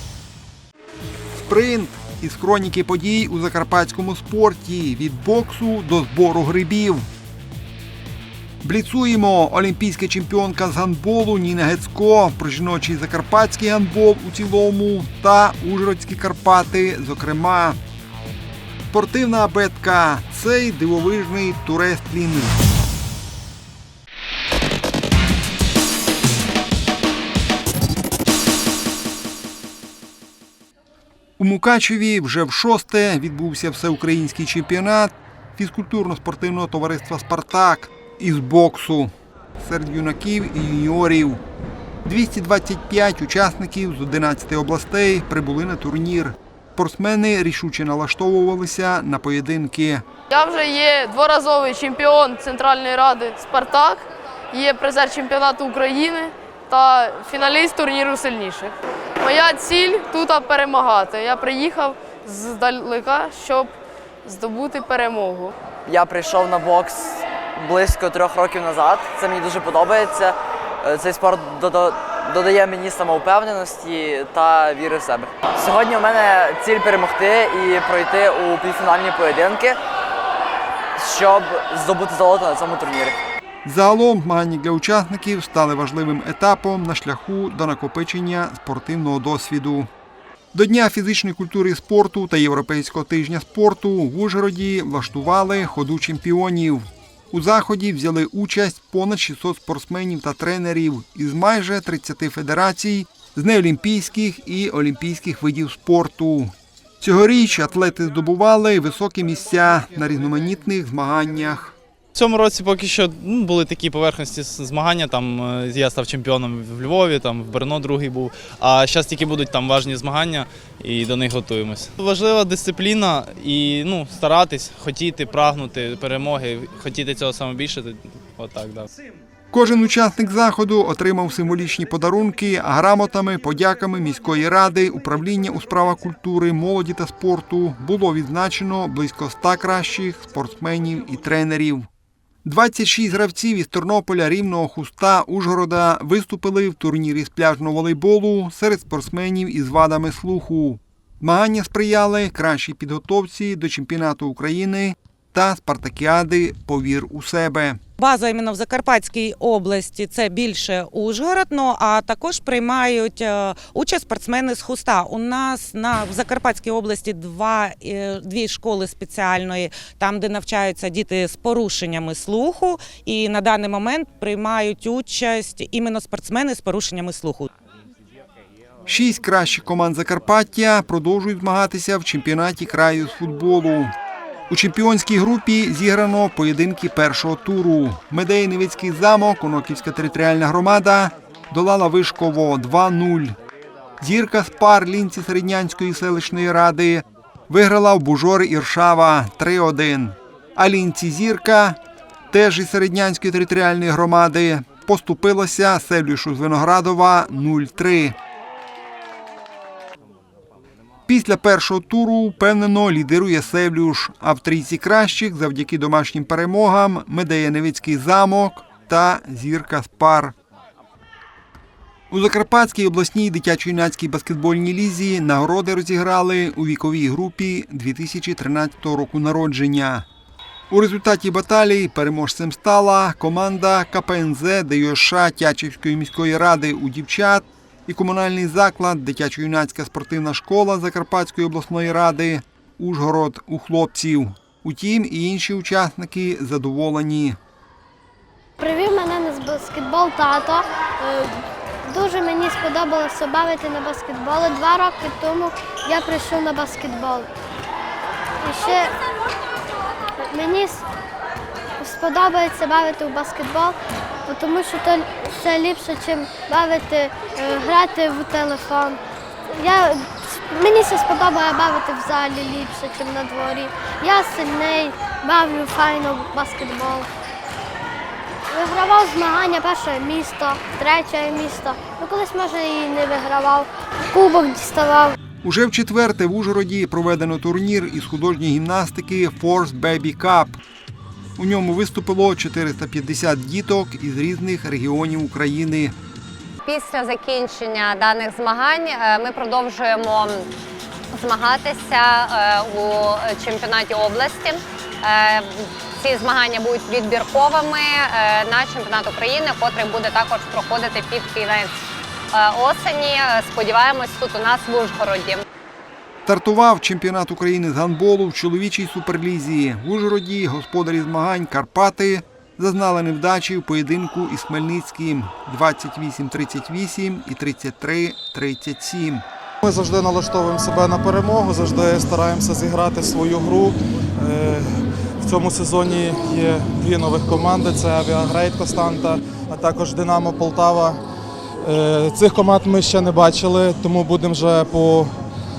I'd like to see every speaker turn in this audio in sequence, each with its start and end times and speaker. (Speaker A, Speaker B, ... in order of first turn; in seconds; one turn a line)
Speaker A: 1.4-7.1
Speaker A: 8.6-17.8
Speaker A: 18.9-22.6
Speaker A: 31.4-41.4
Speaker A: 42.0-50.0
Speaker B: 50.3-63.7
Speaker B: 64.2-65.5
Speaker C: 65.8-79.8
Speaker C: 81.0-83.1
Speaker A: 83.6-89.9
Speaker A: 90.5-111.8
Speaker D: 112.2-128.9
Speaker A: 129.5-141.9
Speaker A: 142.4-157.8
Speaker E: 158.0-177.5
Speaker A: 178.8-183.9
Speaker A: 184.5-193.4
Speaker A: 194.0-201.8
Speaker A: 202.3-208.2
Speaker A: 211.1-220.3
Speaker A: 222.1-230.1
Speaker A: 230.7-247.4
Speaker F: 248.6-257.3
Speaker F: 258.4-258.9
Speaker F: 260.2-260.8
Speaker F: 261.8-277.1
Speaker F: 278.5-285.1
Speaker A: 285.4-290.6
Speaker A: 291.4-295.9
Speaker G: 296.6-300.5
Speaker G: 301.1-311.8
Speaker G: 312.3-315.4
Speaker A: 316.2-329.2
Speaker H: 329.6-341.0
Speaker H: 341.6-345.1